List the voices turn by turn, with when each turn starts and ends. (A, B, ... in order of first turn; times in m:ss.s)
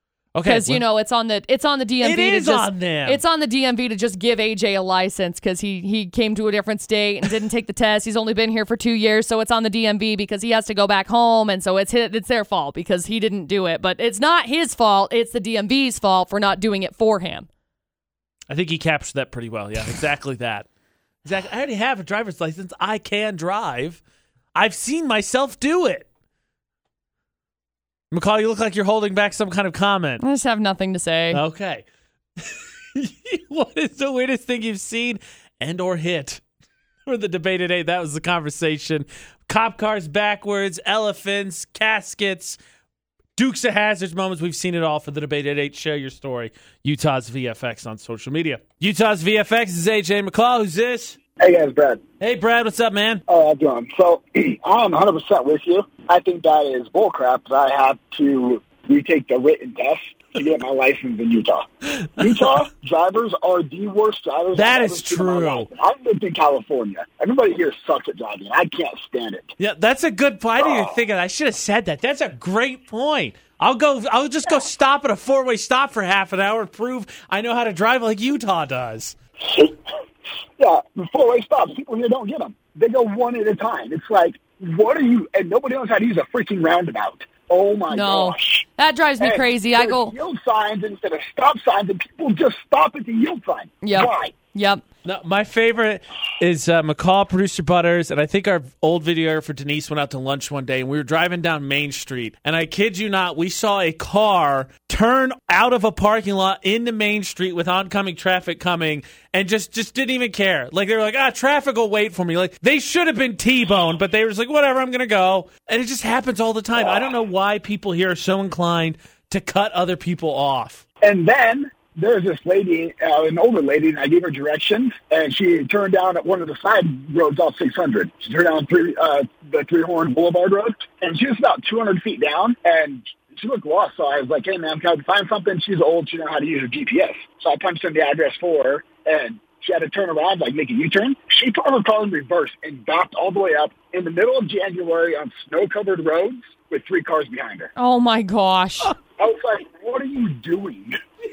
0:00.3-0:00.8 A
0:00.4-0:17.5 B
0:02.0-0:03.2 A
0:18.5-0:20.7 A
0:21.2-0:24.0 A
0:24.5-0:26.1 A
0:28.1-0:30.2 A
0:30.2-0:31.4 B
0:31.3-0:31.8 A
0:32.4-0:36.4 A
0:37.0-0:42.6 A
0:43.4-0:51.2 A
0:51.4-0:52.0 C
0:52.2-0:53.2 A
0:53.3-1:09.5 C
1:04.5-1:05.7 A
1:09.6-1:19.2 A
1:10.6-1:10.9 C
1:19.4-1:19.8 C
1:20.6-1:28.6 C
1:27.9-1:30.1 B
1:29.2-1:34.4 C
1:33.8-1:34.8 B
1:35.0-2:00.8 A
2:01.0-2:27.7 C
2:27.8-2:28.9 B
2:29.1-2:31.0 C